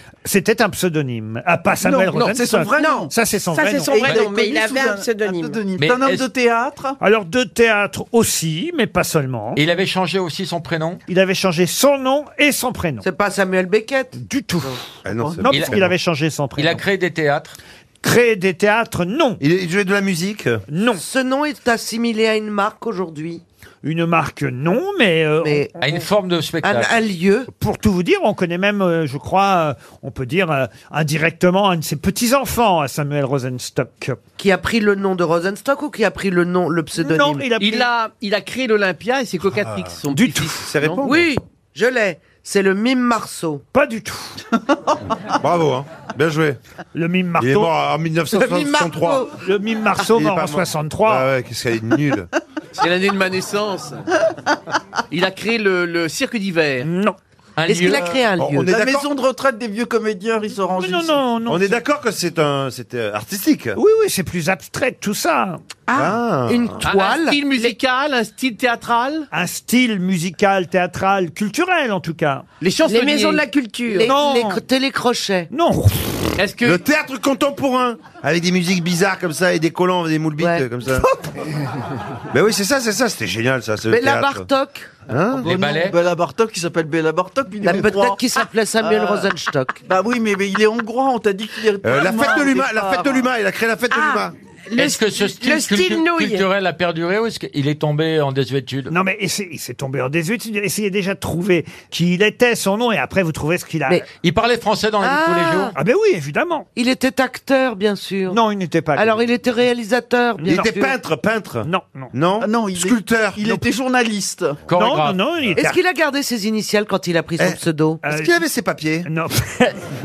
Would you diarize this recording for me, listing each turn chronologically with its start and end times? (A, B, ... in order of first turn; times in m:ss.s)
0:00.2-0:04.2 A
0:01.8-0:03.1 B
0:02.8-0:05.6 C
0:03.9-0:07.0 B
0:05.8-0:06.3 D
0:07.0-0:09.6 A
0:09.6-0:11.0 D
0:11.1-0:13.0 A
0:13.0-0:15.4 E
0:14.2-0:14.8 A
0:15.0-0:15.8 F
0:15.4-0:16.8 A
0:15.5-0:15.9 D
0:16.6-0:17.6 D
0:18.0-0:19.4 A
0:19.4-0:20.6 F
0:20.7-0:21.0 A
0:20.9-0:23.4 E
0:23.8-0:25.7 A
0:25.4-0:25.7 E
0:25.8-0:27.0 D
0:26.6-0:27.5 E
0:27.5-0:34.2 A
0:34.4-0:37.5 E
0:37.0-0:37.9 A
0:37.6-0:41.2 G
0:40.1-0:40.5 A
0:40.8-0:41.3 F
0:41.0-0:43.6 E
0:43.7-0:44.4 A
0:45.4-0:46.6 F
0:46.9-0:47.7 A
0:47.4-0:49.3 F
0:49.4-0:51.3 A
0:50.0-0:52.3 F
0:52.8-0:54.0 G
0:55.1-0:56.9 G
0:56.8-0:57.2 A
0:57.6-0:58.1 D
0:57.7-0:58.0 G
0:57.7-0:58.7 E
0:58.4-0:59.1 F
0:58.6-1:01.2 B
1:00.8-1:01.8 A
1:01.4-1:03.8 F
1:03.8-1:05.6 A
1:05.9-1:06.8 F
1:06.5-1:07.4 E
1:06.8-1:09.3 G
1:09.3-1:12.4 A
1:12.6-1:13.4 G
1:12.8-1:14.1 C
1:13.9-1:15.5 E
1:14.0-1:14.6 A
1:15.5-1:16.3 A
1:16.4-1:16.8 G
1:16.6-1:21.0 F
1:22.3-1:24.4 F
1:23.9-1:24.9 E
1:25.1-1:25.5 F
1:25.4-1:26.0 D
1:25.4-1:28.2 B
1:27.6-1:29.8 E
1:28.8-1:29.3 B
1:29.8-1:33.2 B
1:31.8-1:34.3 F
1:33.9-1:36.4 C
1:34.8-1:38.9 D
1:38.9-1:44.0 A
1:44.1-1:45.7 D
1:45.0-1:45.7 E
1:45.8-1:46.7 A
1:46.8-1:48.4 E
1:48.3-1:49.2 A
1:49.0-1:51.0 E
1:50.4-1:53.6 F
1:51.6-1:52.1 A
1:52.4-1:54.6 B
1:54.7-1:55.2 D
1:54.7-1:55.8 A
1:55.6-1:58.0 E
1:57.4-1:59.1 F
1:58.0-1:58.3 A
1:59.0-1:59.8 A